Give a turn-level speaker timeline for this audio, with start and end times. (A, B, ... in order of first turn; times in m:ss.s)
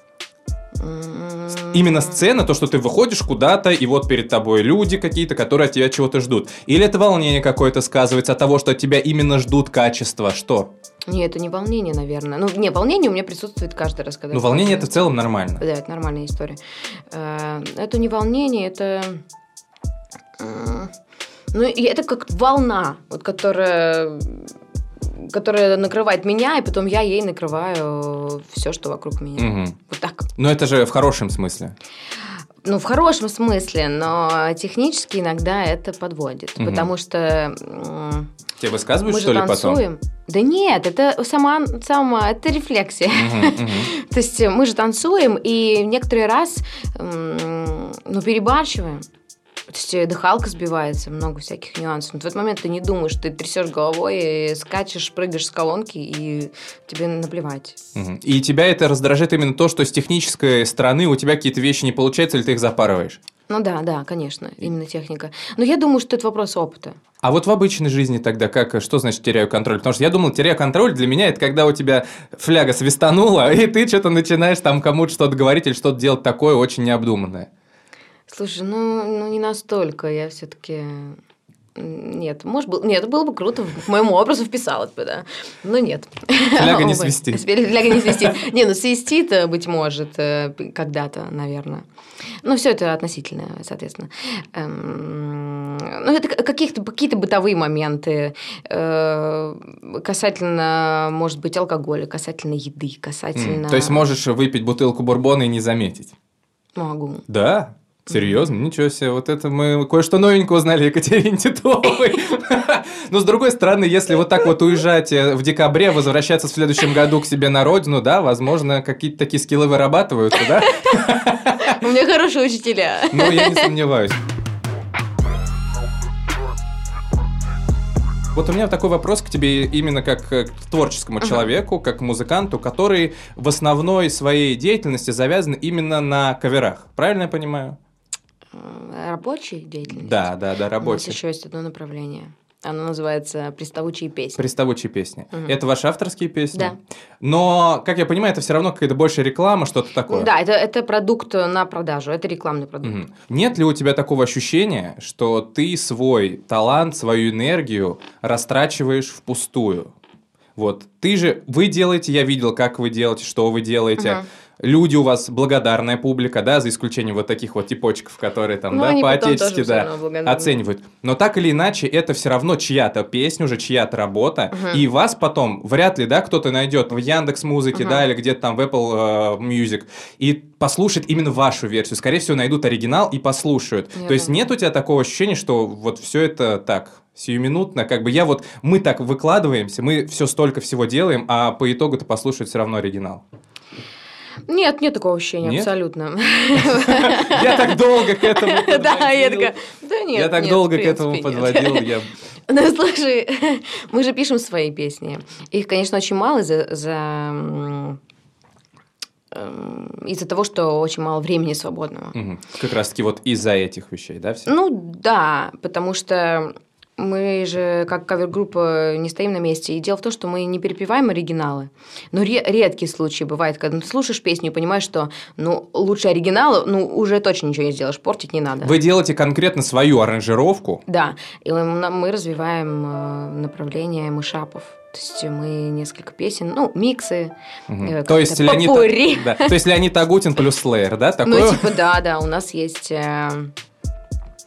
0:00.8-0:02.2 A
0:01.7-0:10.7 B
0:11.1-0:16.6 A
0:14.3-0:15.6 B
0:17.1-0:19.2 A
0:20.4-0:20.9 A
0:21.5-0:24.5 A
0:25.0-0:30.3 A
0:29.4-0:29.8 B
0:30.4-0:31.8 B
0:32.6-0:38.3 A
0:36.6-0:36.9 B
0:38.6-0:39.8 B
0:39.0-0:49.1 A
0:43.1-0:43.9 B
0:49.7-0:57.8 A
0:58.0-1:03.2 B
1:03.5-1:07.0 A
1:07.2-1:17.5 B
1:18.3-1:21.2 A
1:21.8-1:31.8 A
1:26.5-1:28.2 B
1:32.4-1:44.0 A
1:43.4-1:46.1 B
1:46.8-1:47.3 A
1:47.3-2:01.8 B
1:48.1-1:48.5 A
2:00.7-2:01.0 A
2:01.6-2:03.7 A
2:03.1-2:04.2 B
2:08.4-2:17.8 B
2:11.2-2:11.5 A
2:18.5-2:24.4 A
2:19.9-2:21.2 B
2:24.4-2:30.3 B
2:30.1-2:33.0 A
2:32.8-2:39.9 B
2:40.6-3:13.2 B
2:44.0-2:44.3 A
2:48.7-2:50.6 A
2:54.5-2:54.8 A
2:57.7-2:58.1 A
3:04.0-3:04.4 A
3:14.5-3:21.9 A
3:15.4-3:15.7 B
3:16.6-3:19.5 B
3:20.1-3:22.1 B
3:22.5-3:28.0 A
3:29.3-3:32.2 A
3:32.2-3:34.5 B
3:34.5-3:48.8 A
3:48.6-3:50.8 B
3:50.9-3:59.6 A
3:57.7-4:01.8 B
4:01.2-4:03.5 A